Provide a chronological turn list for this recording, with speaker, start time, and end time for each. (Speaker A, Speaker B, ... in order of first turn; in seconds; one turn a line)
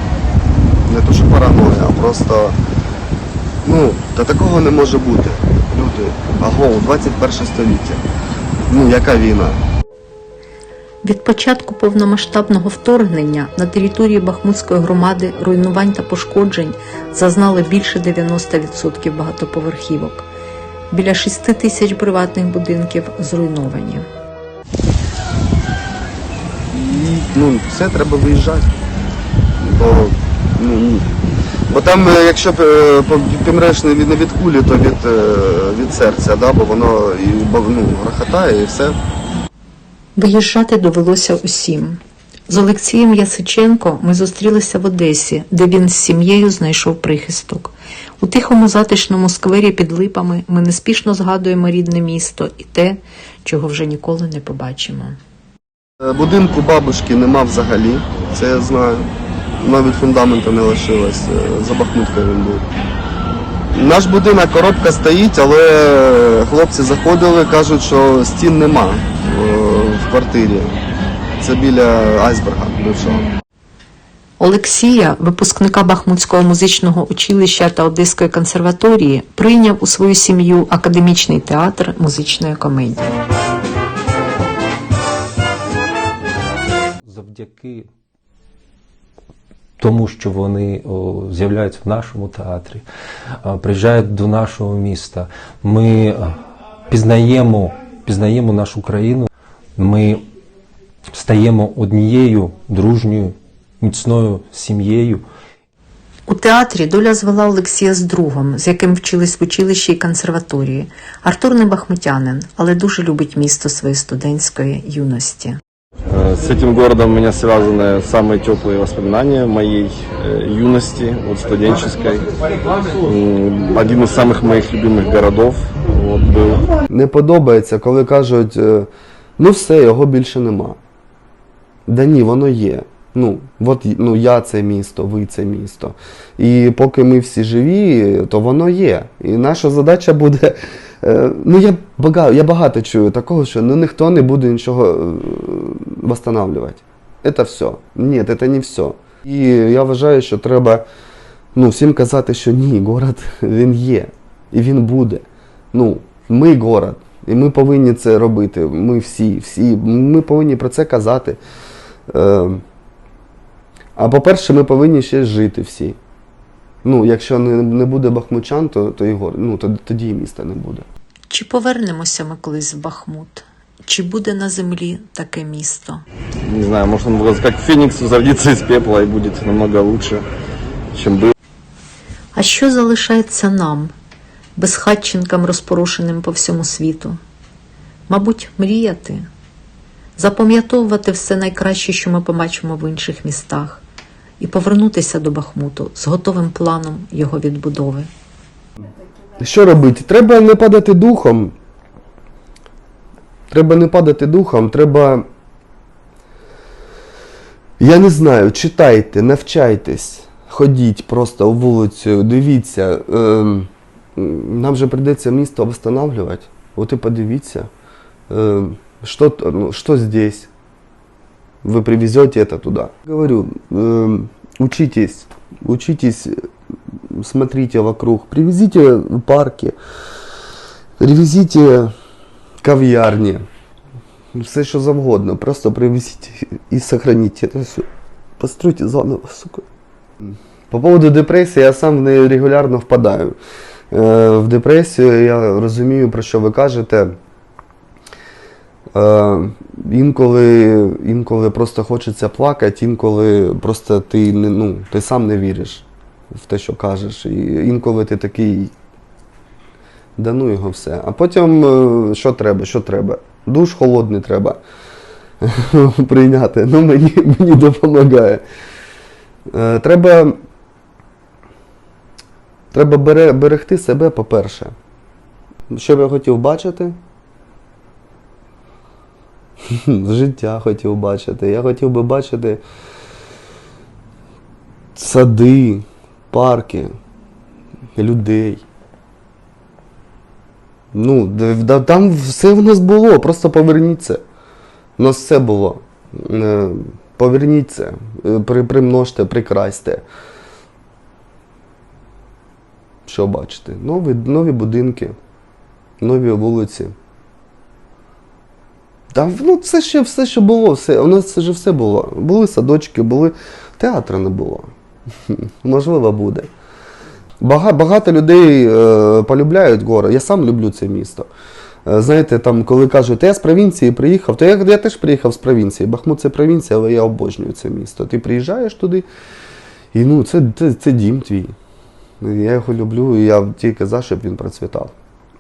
Speaker A: 0.8-2.6
Speaker A: 3.6-8.0
Speaker A: 8.7-9.6
Speaker B: 11.0-20.3
Speaker B: 20.9-24.1
Speaker A: 26.7-28.8
Speaker A: 29.6-31.1
Speaker A: 31.7-39.0
Speaker B: 40.2-55.2
Speaker A: 56.0-62.7
Speaker A: 63.7-70.8
Speaker A: 71.4-73.3
Speaker B: 74.4-83.1
Speaker C: 87.0-87.9
Speaker C: 89.8-92.8
Speaker C: 93.4-96.4
Speaker C: 96.9-100.3
Speaker C: 101.1-105.2
Speaker B: 106.3-115.6
Speaker D: 116.1-122.3
Speaker D: 123.0-126.7
Speaker A: 126.9-130.8
Speaker A: 131.9-150.8
Speaker A: 151.6-161.4
Speaker A: 162.1-162.6
Speaker A: 164.0-166.0
Speaker A: 166.8-170.9
Speaker B: 171.3-176.0
Speaker D: 176.4-180.3
Speaker D: 180.9-181.3
Speaker B: 182.3-183.9
Speaker B: 184.6-187.2
Speaker B: 188.1-189.3
Speaker B: 190.2-193.8
Speaker B: 194.4-198.1
Speaker A: 199.4-201.5
Speaker A: 203.5-205.3
Speaker A: 207.8-217.7
Speaker A: 218.3-220.5
Speaker A: 221.6-229.8
Speaker A: 231.0-231.9
Speaker A: 232.6-233.4
Speaker A: 234.3-237.9
Speaker A: 238.4-239.7
Speaker A: 240.2-243.4
Speaker A: 243.9-247.2
Speaker A: 248.9-258.7
Speaker A: 260.2-264.6
Speaker A: 265.4-268.4
Speaker A: 269.5-270.4
Speaker A: 272.7-274.7
Speaker A: 275.7-277.0
Speaker A: 279.7-282.6
Speaker A: 284.9-286.9
Speaker A: 288.0-288.6
Speaker A: 290.9-294.2
Speaker A: 295.0-300.1
Speaker A: 303.1-305.2
Speaker A: 306.0-306.9
Speaker A: 309.1-314.7
Speaker A: 315.3-316.5
Speaker A: 317.4-321.3
Speaker A: 321.9-329.1
Speaker A: 329.9-331.6
Speaker A: 332.2-334.9